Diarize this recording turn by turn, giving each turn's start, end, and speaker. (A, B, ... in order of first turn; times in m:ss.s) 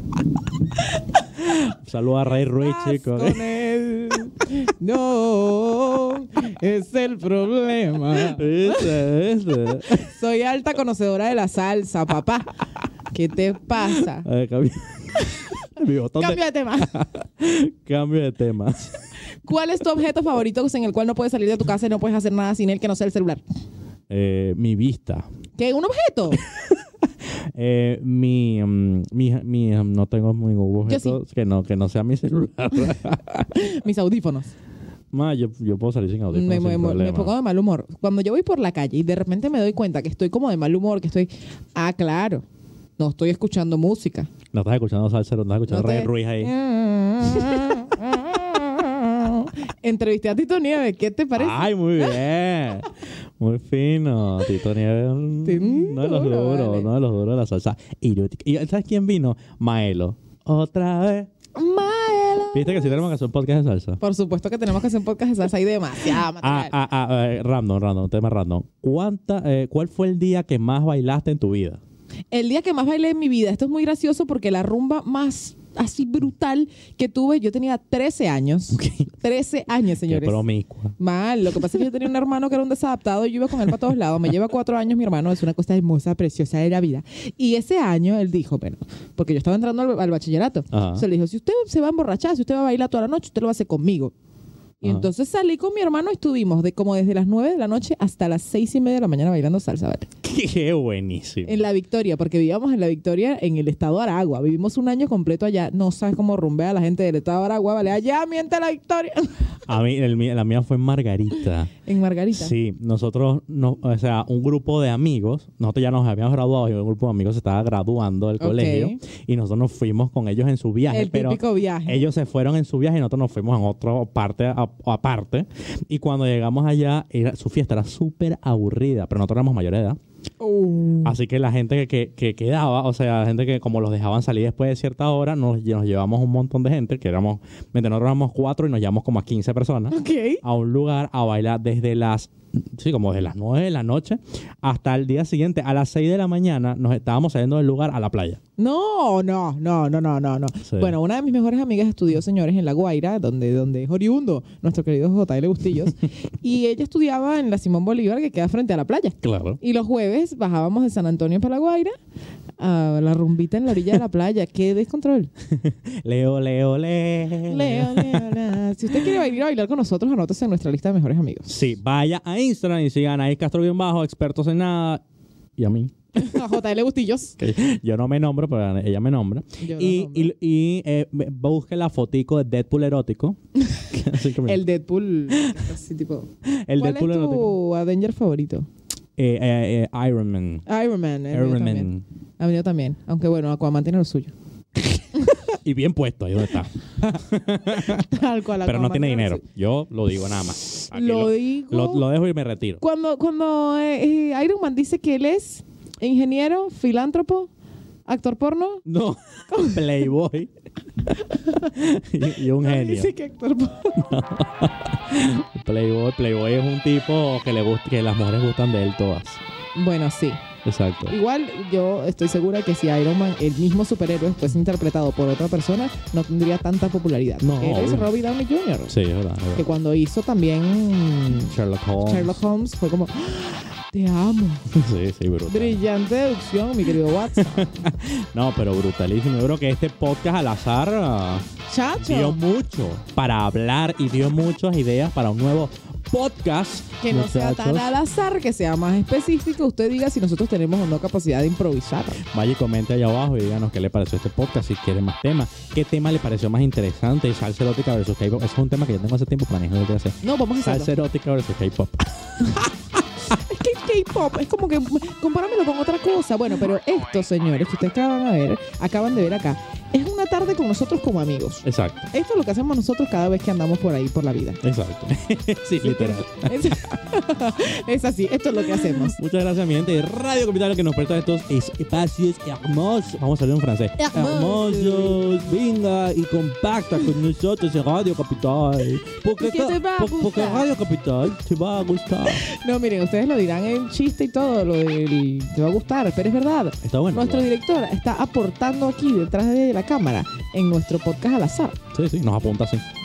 0:01.4-0:03.4 A
0:02.6-0:09.0 B
0:08.1-0:10.1 A
0:09.8-0:12.5 B
0:13.1-0:14.3 B
0:14.0-0:19.0 A
0:16.2-0:17.0 B
0:19.4-0:23.4 B
0:24.1-0:25.3 A
0:25.6-0:26.4 B
0:26.4-0:26.8 A
0:27.5-0:33.5 A
0:30.9-0:31.2 B
0:33.5-0:34.5 B
0:35.1-0:37.3 A
0:36.3-0:42.4 B
0:43.0-0:44.3 B
0:44.5-0:46.5 A
0:45.7-0:52.1 B
0:51.3-1:01.3 A
0:55.4-0:56.9 B
1:01.5-1:03.0 B
1:02.5-1:04.0 A
1:04.0-1:06.7 B
1:06.4-1:11.8 A
1:12.3-1:20.4 B
1:18.7-1:19.1 A
1:20.0-1:21.0 A
1:21.0-1:34.1 B
1:30.7-1:31.0 A
1:34.8-1:40.1 B
1:34.8-1:35.1 A
1:40.2-1:41.7 A
1:41.4-1:49.6 B
1:49.7-1:51.7 A
1:51.8-1:52.5 B
1:52.3-2:10.0 A
1:58.4-1:59.0 B
2:00.9-2:02.0 B
2:10.4-2:11.2 B
2:11.0-2:28.4 A
2:19.9-2:20.4 B
2:28.6-2:41.9 B
2:30.6-2:31.0 A
2:39.2-2:39.6 A
2:42.6-2:45.3 B
2:45.5-2:48.5 A
2:47.4-2:51.5 B
2:51.4-2:55.0 A
2:55.6-2:56.4 A
2:56.2-2:57.4 B
2:57.4-3:04.6 A
2:59.6-3:00.3 B
3:04.4-3:08.7 B
3:06.4-3:07.5 A
3:09.2-3:10.6 A
3:10.6-3:14.3 B
3:11.3-3:12.0 A
3:15.4-3:22.8 A
3:17.0-3:19.4 B
3:20.9-3:22.0 B
3:22.8-3:27.5 B
3:28.1-3:28.8 B
3:28.8-3:30.5 A
3:29.5-3:29.8 B
3:31.0-3:33.1 A
3:31.3-3:31.7 B
3:32.6-3:34.0 B
3:34.0-3:39.4 A
3:39.7-3:40.4 B
3:40.6-3:41.2 A
3:41.1-3:49.0 B
3:47.4-3:48.1 A
3:48.9-3:49.6 A
3:49.5-3:54.7 B
3:51.4-3:52.4 A
3:54.7-3:55.8 A
3:55.5-3:57.7 B
3:57.3-4:01.5 A
4:01.7-4:02.4 B
4:02.0-4:07.9 A
4:07.0-4:12.2 B
4:12.2-4:22.6 A
4:20.2-4:20.9 B
4:23.2-4:34.6 B
4:31.6-4:32.1 A
4:34.6-4:36.7 A
4:35.8-4:39.2 B
4:38.9-4:52.4 A
4:44.0-4:45.3 B
4:49.4-4:50.6 B
4:52.3-5:01.8 B
4:56.8-4:57.5 A
5:01.9-5:02.8 A